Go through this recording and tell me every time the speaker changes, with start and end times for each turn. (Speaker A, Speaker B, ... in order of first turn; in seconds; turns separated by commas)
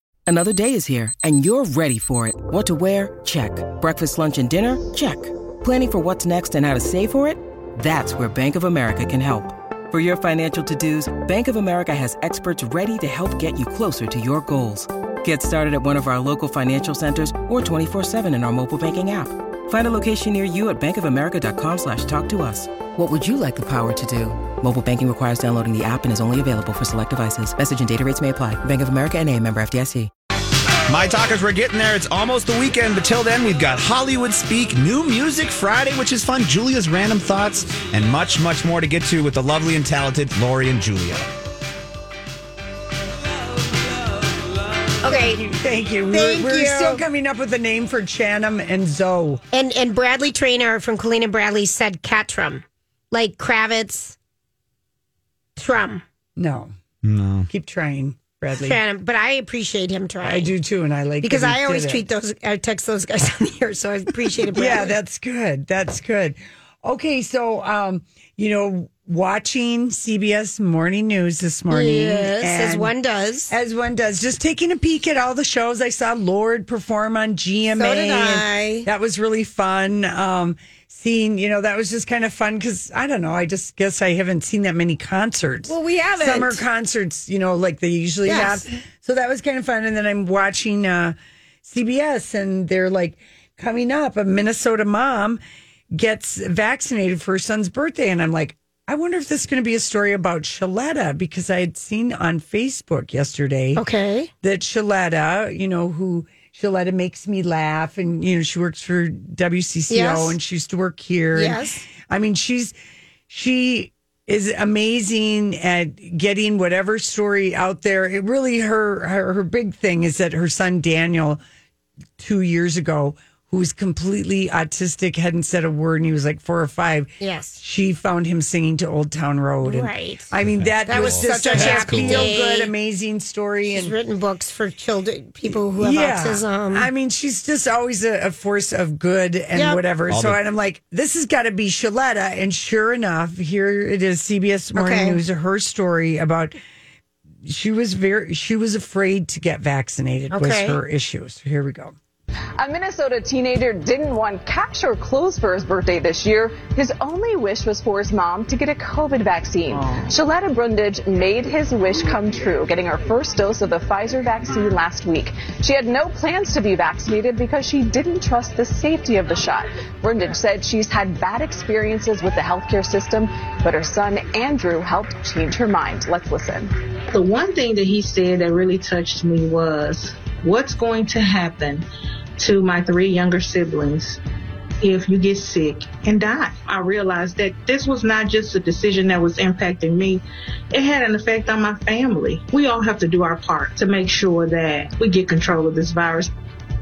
Speaker A: 0.3-30.1, Speaker B: 30.9-41.3, Speaker C: 45.0-45.4, Speaker D: 45.0-49.4, Speaker C: 46.1-47.0, Speaker C: 49.5-54.1, Speaker C: 55.6-56.0, Speaker D: 56.4-56.7, Speaker B: 57.0-57.5, Speaker D: 57.5-58.8, Speaker C: 58.6-60.5, Speaker D: 60.2-62.0, Speaker C: 61.2-64.9, Speaker D: 64.5-72.9, Speaker C: 71.7-73.5, Speaker D: 73.5-95.4, Speaker C: 77.8-78.9, Speaker C: 85.7-86.6, Speaker C: 88.2-88.6, Speaker D: 95.9-103.8, Speaker C: 103.8-104.3, Speaker D: 104.4-112.7, Speaker C: 109.9-110.3, Speaker C: 111.3-111.8, Speaker D: 113.3-121.4, Speaker D: 122.2-133.9, Speaker C: 127.2-127.6, Speaker C: 129.6-130.3, Speaker B: 130.4-132.3, Speaker C: 130.9-132.7, Speaker C: 133.7-136.9, Speaker D: 135.8-146.6, Speaker C: 139.5-139.8, Speaker B: 140.1-140.4, Speaker C: 144.8-145.2, Speaker D: 147.4-151.9, Speaker C: 150.3-150.8, Speaker E: 152.6-176.7, Speaker F: 177.1-181.8, Speaker F: 182.4-184.2, Speaker F: 184.8-196.3